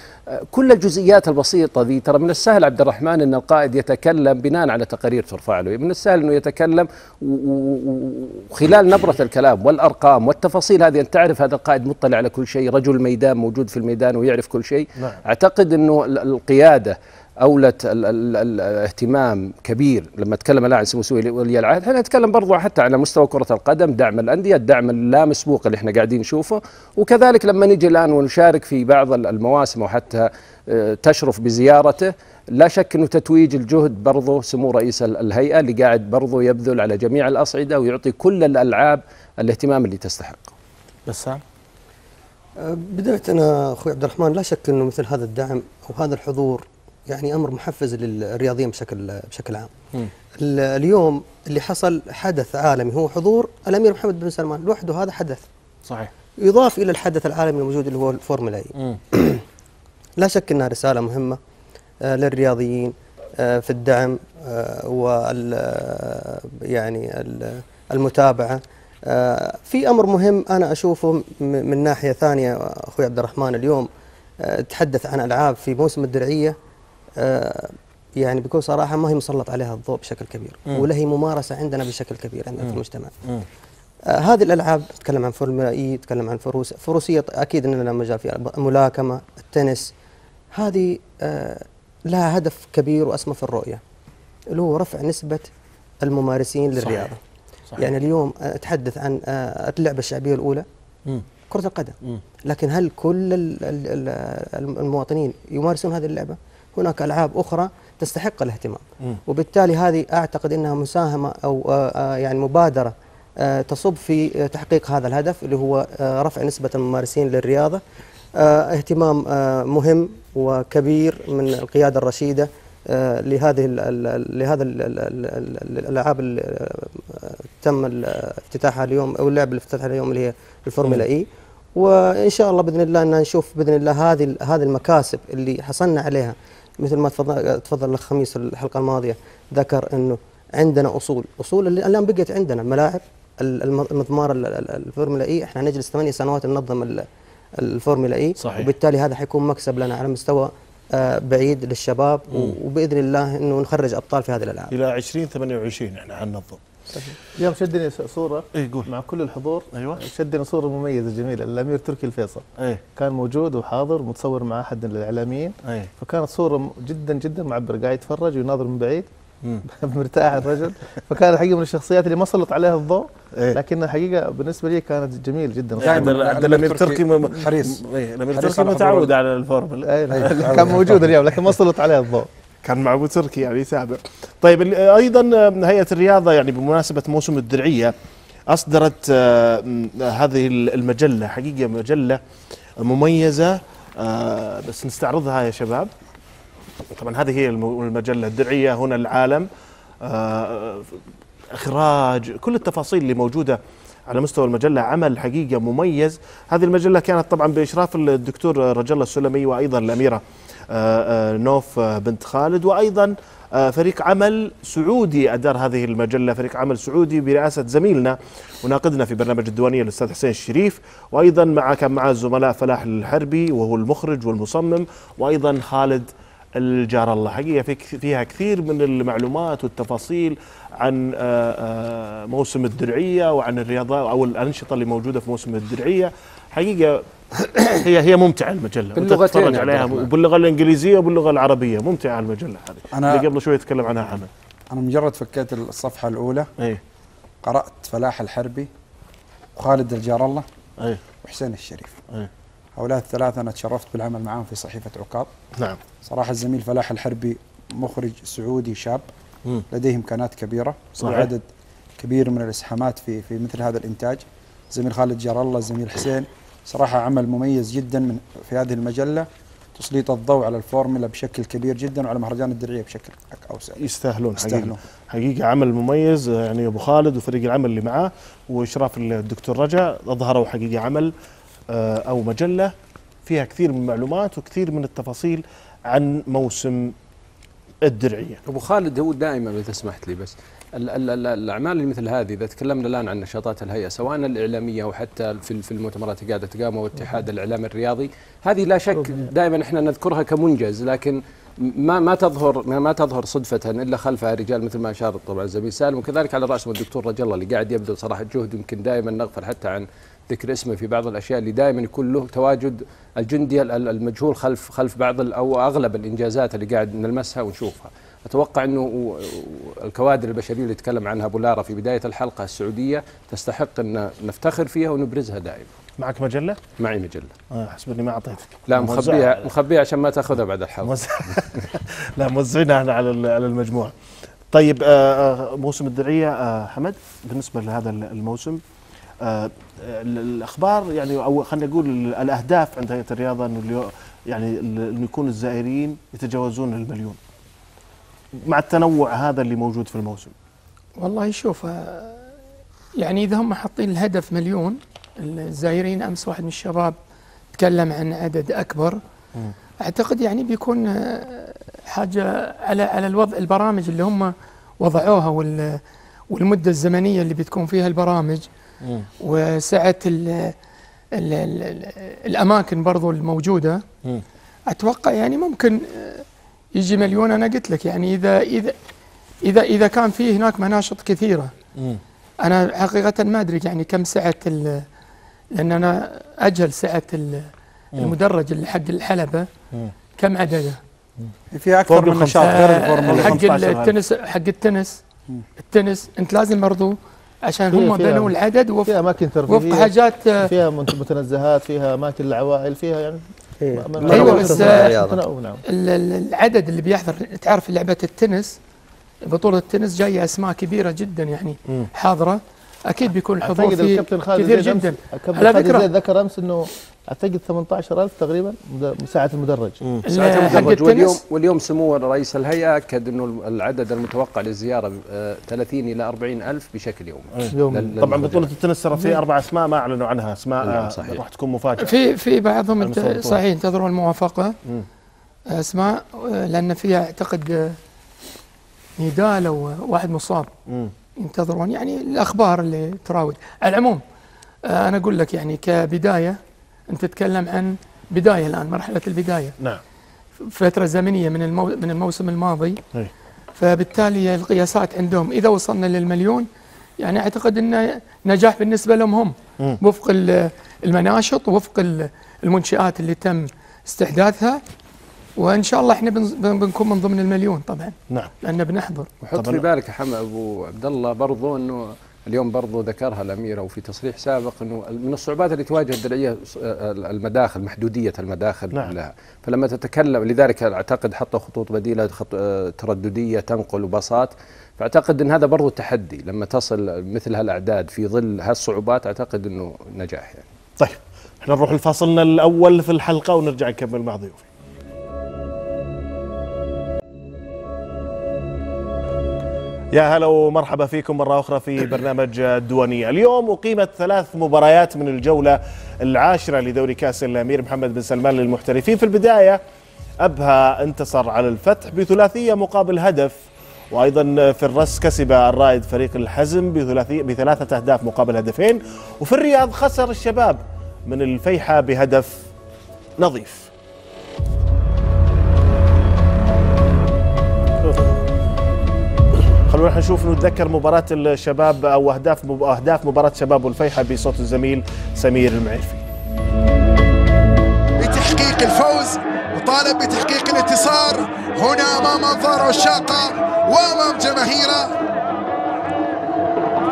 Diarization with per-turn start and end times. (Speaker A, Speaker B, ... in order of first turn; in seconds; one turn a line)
Speaker A: 0.5-40.5
Speaker B: 41.1-41.4
Speaker C: 42.6-49.7
Speaker C: 50.4-55.4
Speaker C: 56.4-59.4
Speaker C: 60.2-61.4
Speaker C: 62.1-73.9
Speaker C: 74.4-76.6
Speaker C: 77.2-83.1
Speaker B: 82.6-83.5
Speaker C: 84.1-89.9
Speaker C: 90.5-93.8
Speaker C: 94.5-95.5
Speaker C: 96.0-97.2
Speaker B: 96.8-97.1
Speaker C: 97.8-100.6
Speaker C: 101.5-117.8
Speaker C: 118.4-147.1
Speaker C: 147.6-154.7
Speaker B: 148.4-148.7
Speaker B: 154.7-156.6
Speaker D: 157.4-162.4
Speaker B: 158.6-158.9
Speaker B: 159.7-160.0
Speaker D: 163.0-169.1
Speaker D: 169.7-176.1
Speaker B: 175.8-180.9
Speaker E: 175.8-177.8
Speaker E: 178.3-179.1
Speaker D: 179.9-182.3
Speaker E: 180.1-180.9
Speaker B: 182.6-187.9
Speaker B: 188.5-192.2
Speaker B: 192.8-195.9
Speaker B: 196.9-199.5
Speaker B: 200.1-200.9
Speaker B: 201.6-244.3
Speaker A: 238.9-240.1
Speaker E: 242.9-243.3
Speaker E: 244.7-246.5
Speaker E: 247.4-248.7
Speaker E: 249.6-250.4
Speaker E: 251.2-252.0
Speaker E: 252.8-255.3
Speaker E: 256.1-259.0
Speaker E: 259.7-261.4
Speaker B: 261.0-261.3
Speaker E: 262.0-273.8
Speaker B: 273.8-281.1
Speaker E: 274.4-274.8
Speaker B: 281.7-282.7
Speaker B: 283.3-286.9
Speaker B: 287.9-288.4
Speaker A: 288.4-325.7
Speaker D: 298.9-299.3
Speaker B: 326.0-326.6
Speaker A: 326.8-327.3
Speaker B: 327.6-329.4
Speaker A: 328.7-331.4
Speaker B: 330.9-333.9
Speaker B: 334.5-338.6
Speaker B: 339.2-347.2
Speaker B: 348.5-350.3
Speaker F: 351.0-352.3
Speaker F: 353.0-356.9
Speaker F: 357.6-359.0
Speaker F: 359.8-365.8
Speaker F: 366.3-368.5
Speaker F: 369.2-370.5
Speaker F: 371.1-373.8
Speaker F: 374.7-376.2
Speaker F: 376.8-378.8
Speaker F: 379.4-381.5
Speaker F: 382.4-384.8
Speaker F: 385.6-389.5
Speaker F: 390.2-390.8
Speaker E: 391.5-393.4
Speaker B: 391.9-393.9
Speaker F: 392.4-395.0
Speaker F: 395.6-397.0
Speaker F: 397.5-398.9
Speaker D: 397.7-398.3
Speaker D: 398.9-399.9
Speaker F: 399.5-400.5
Speaker D: 400.4-403.2
Speaker C: 403.6-405.2
Speaker D: 403.8-405.6
Speaker F: 404.1-404.9
Speaker F: 405.7-408.6
Speaker F: 409.3-415.9
Speaker D: 413.4-419.8
Speaker B: 419.8-420.7
Speaker F: 420.1-421.2
Speaker A: 420.1-428.4
Speaker B: 427.4-431.9
Speaker D: 427.5-427.9
Speaker A: 430.6-431.2
Speaker F: 431.8-434.6
Speaker B: 432.8-433.4
Speaker F: 435.5-437.8
Speaker F: 439.0-440.5
Speaker F: 441.2-444.0
Speaker F: 444.7-446.4
Speaker F: 446.9-449.6
Speaker F: 450.5-452.8
Speaker F: 453.6-456.5
Speaker F: 457.0-464.6
Speaker F: 465.4-469.1
Speaker A: 469.2-490.5
Speaker B: 469.4-469.6
Speaker B: 490.8-494.4
Speaker B: 499.9-509.6
Speaker B: 510.2-513.4
Speaker B: 513.9-522.4
Speaker B: 523.2-523.7
Speaker B: 527.8-528.1
Speaker B: 529.7-536.0
Speaker G: 538.0-544.9